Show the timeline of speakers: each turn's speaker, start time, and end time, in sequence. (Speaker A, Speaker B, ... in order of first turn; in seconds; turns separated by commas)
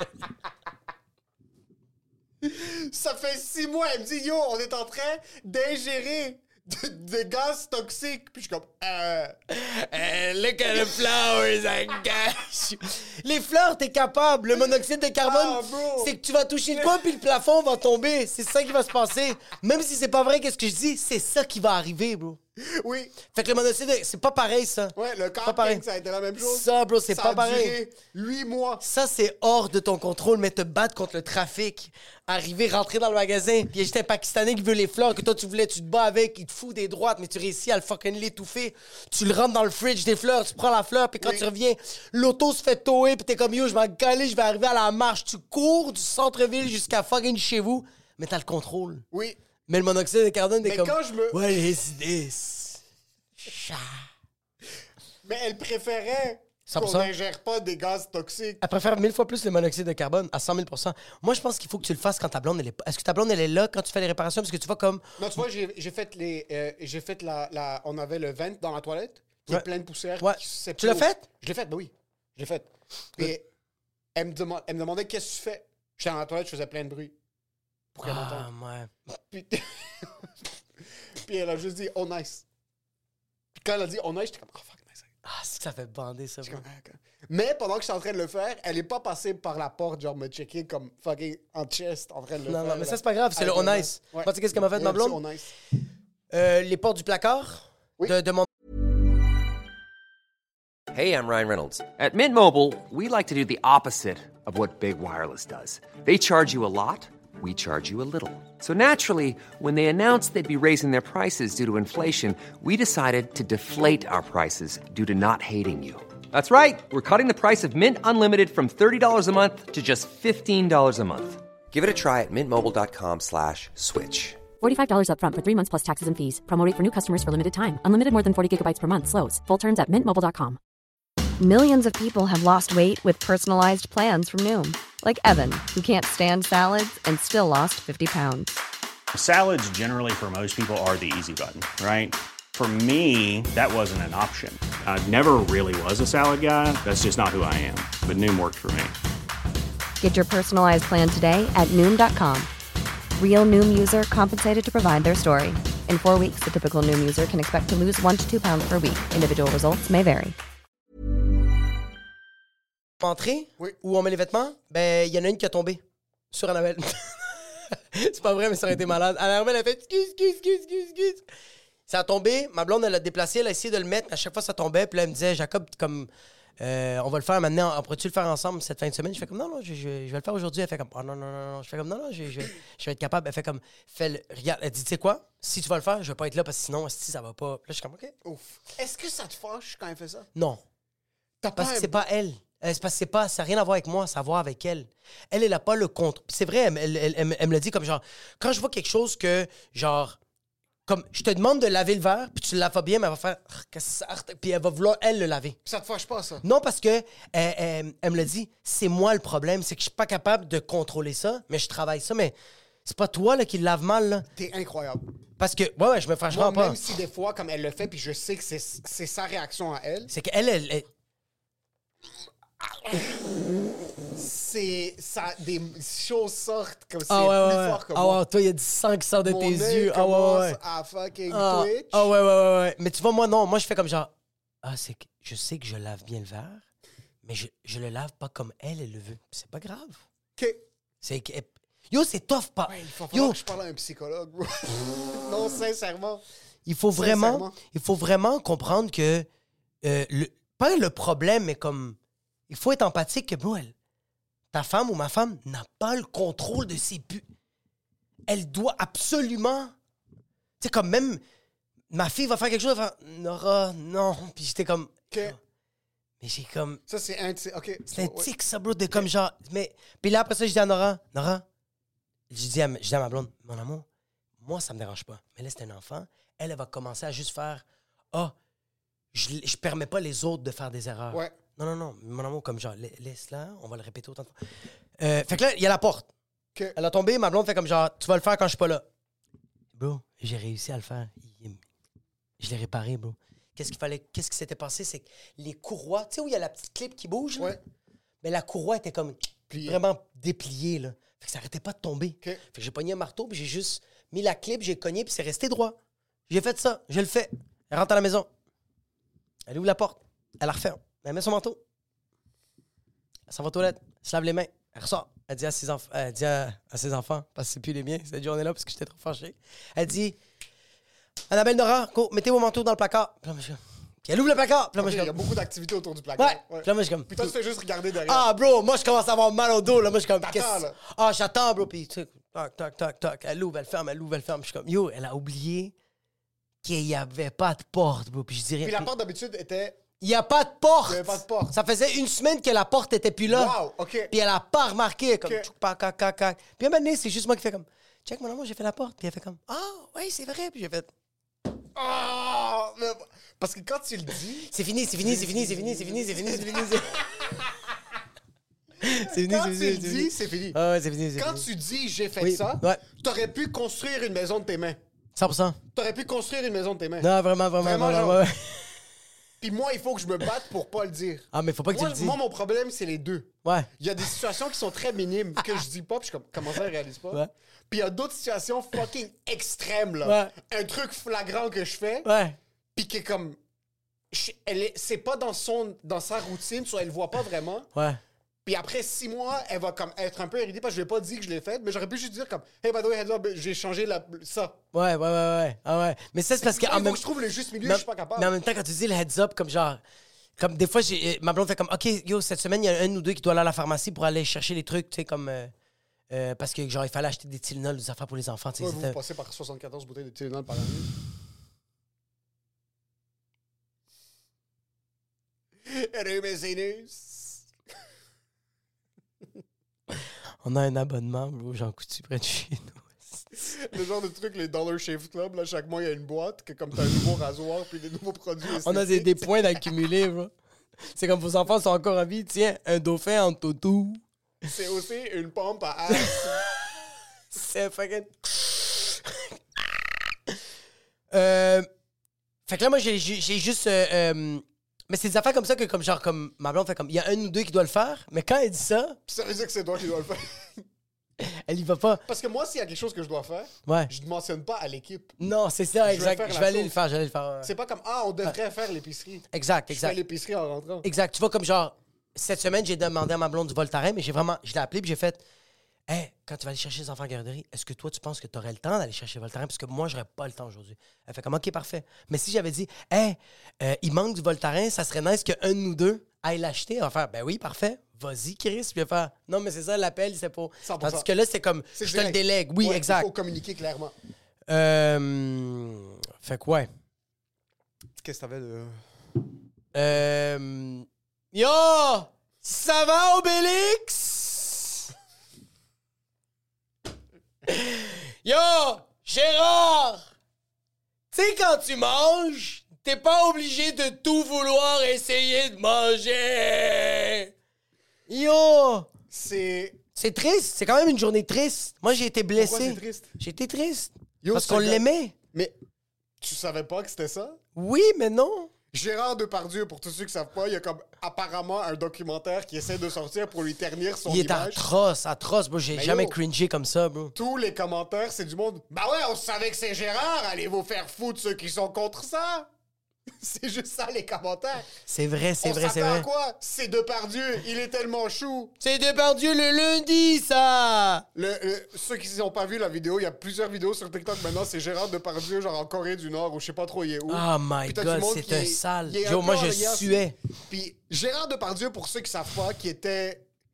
Speaker A: 2.4-9.4, Speaker B: 9.5-22.4, Speaker A: 15.2-16.1, Speaker A: 16.7-17.0, Speaker A: 22.6-23.2, Speaker B: 23.3-25.8, Speaker A: 24.9-28.8, Speaker B: 26.4-27.8, Speaker B: 28.8-49.0, Speaker A: 41.2-41.5, Speaker A: 49.1-49.4, Speaker B: 49.7-52.8, Speaker A: 50.6-51.6, Speaker B: 53.5-53.8, Speaker A: 55.2-58.6, Speaker B: 56.7-57.1, Speaker B: 58.6-65.2, Speaker A: 65.2-73.4, Speaker B: 70.2-71.2, Speaker A: 74.1-77.1, Speaker A: 77.9-78.5, Speaker B: 78.0-79.2, Speaker A: 79.3-80.3, Speaker A: 81.2-82.4, Speaker A: 83.5-85.1, Speaker B: 85.2-86.6, Speaker A: 86.4-95.5, Speaker B: 92.5-95.2, Speaker B: 96.3-98.5, Speaker C: 100.9-124.4, Speaker D: 124.6-130.6, Speaker E: 131.4-138.6, Speaker F: 139.1-148.9, Speaker E: 150.0-152.5, Speaker E: 153.2-160.3, Speaker B: 163.0-165.8, Speaker B: 166.3-171.2, Speaker B: 171.9-176.1, Speaker B: 176.6-188.1, Speaker A: 188.2-190.3, Speaker B: 190.3-190.6, Speaker A: 191.4-191.9, Speaker B: 191.6-200.2, Speaker B: 200.8-205.6, Speaker A: 205.6-206.4, Speaker B: 206.4-212.3, Speaker B: 212.8-214.2, Speaker A: 214.3-215.0, Speaker B: 215.4-216.8, Speaker A: 216.3-220.1, Speaker B: 220.1-220.9, Speaker A: 222.6-228.2, Speaker B: 227.1-230.6, Speaker A: 229.2-232.1, Speaker B: 231.3-234.1, Speaker B: 234.6-236.6, Speaker B: 237.2-240.0, Speaker A: 240.4-240.6, Speaker B: 241.0-243.4, Speaker A: 242.7-246.2, Speaker B: 246.7-249.3, Speaker A: 246.9-247.6, Speaker B: 249.8-252.0, Speaker B: 252.5-253.7, Speaker B: 254.5-257.2, Speaker B: 258.3-259.7, Speaker B: 260.6-261.2, Speaker B: 261.9-265.4, Speaker A: 265.1-265.4, Speaker B: 266.2-266.8, Speaker A: 266.9-268.3, Speaker B: 267.9-271.4, Speaker B: 272.3-273.8, Speaker B: 274.4-278.3, Speaker B: 279.1-284.3, Speaker A: 281.1-281.4, Speaker B: 285.0-286.1, Speaker B: 286.7-288.8, Speaker B: 289.8-291.6, Speaker B: 292.4-297.6, Speaker B: 298.2-305.8, Speaker A: 299.5-299.8, Speaker B: 306.3-308.3, Speaker B: 309.5-311.6, Speaker B: 313.3-320.1, Speaker B: 321.3-325.1, Speaker A: 324.8-328.3, Speaker B: 326.2-327.3, Speaker B: 328.1-335.7, Speaker A: 330.2-330.8, Speaker B: 336.6-338.9, Speaker A: 338.6-339.8, Speaker B: 340.0-343.5, Speaker A: 340.9-341.6, Speaker A: 343.3-344.1, Speaker B: 344.1-350.9, Speaker A: 345.2-345.5, Speaker A: 351.7-357.7, Speaker B: 354.5-357.0, Speaker B: 358.8-361.5, Speaker A: 358.9-360.6, Speaker A: 361.1-364.8, Speaker B: 362.2-362.8, Speaker B: 365.1-365.6, Speaker A: 365.7-368.2, Speaker B: 367.0-368.8, Speaker A: 369.4-382.1, Speaker B: 371.3-372.2, Speaker B: 380.0-380.3, Speaker B: 382.0-382.4, Speaker A: 382.7-383.4, Speaker A: 384.1-387.7, Speaker B: 387.7-388.0, Speaker A: 388.4-394.6, Speaker B: 394.7-397.0, Speaker A: 396.4-398.3, Speaker B: 397.6-399.8, Speaker B: 400.4-405.5, Speaker B: 406.1-409.0, Speaker A: 408.6-410.9, Speaker A: 415.6-417.5, Speaker B: 420.4-423.2, Speaker A: 423.4-429.6, Speaker B: 428.6-430.3, Speaker B: 430.9-434.0, Speaker A: 434.4-436.4, Speaker B: 435.9-436.4, Speaker B: 437.3-439.3, Speaker B: 441.1-441.7, Speaker B: 442.5-449.0, Speaker A: 449.1-450.6, Speaker B: 451.2-452.0, Speaker A: 452.0-455.1, Speaker B: 453.6-453.9, Speaker B: 455.2-457.5, Speaker A: 455.9-456.8, Speaker A: 457.4-460.9, Speaker B: 459.3-460.0, Speaker B: 460.8-465.2, Speaker B: 465.9-483.1, Speaker A: 480.6-481.1, Speaker A: 481.7-483.9, Speaker B: 484.5-486.7, Speaker A: 488.0-488.8, Speaker B: 489.7-494.8, Speaker B: 497.4-500.1, Speaker B: 501.1-507.3, Speaker B: 508.1-508.9, Speaker A: 509.1-509.8, Speaker B: 509.9-515.1, Speaker A: 512.4-513.1, Speaker A: 514.2-515.5, Speaker A: 516.2-517.4, Speaker B: 517.5-518.5, Speaker A: 518.7-524.7, Speaker B: 524.0-527.1, Speaker A: 525.7-526.2, Speaker A: 527.1-532.5, Speaker A: 533.1-534.7, Speaker B: 534.9-536.1, Speaker A: 535.4-538.5, Speaker B: 538.6-541.0, Speaker A: 541.1-553.2, Speaker B: 547.1-550.1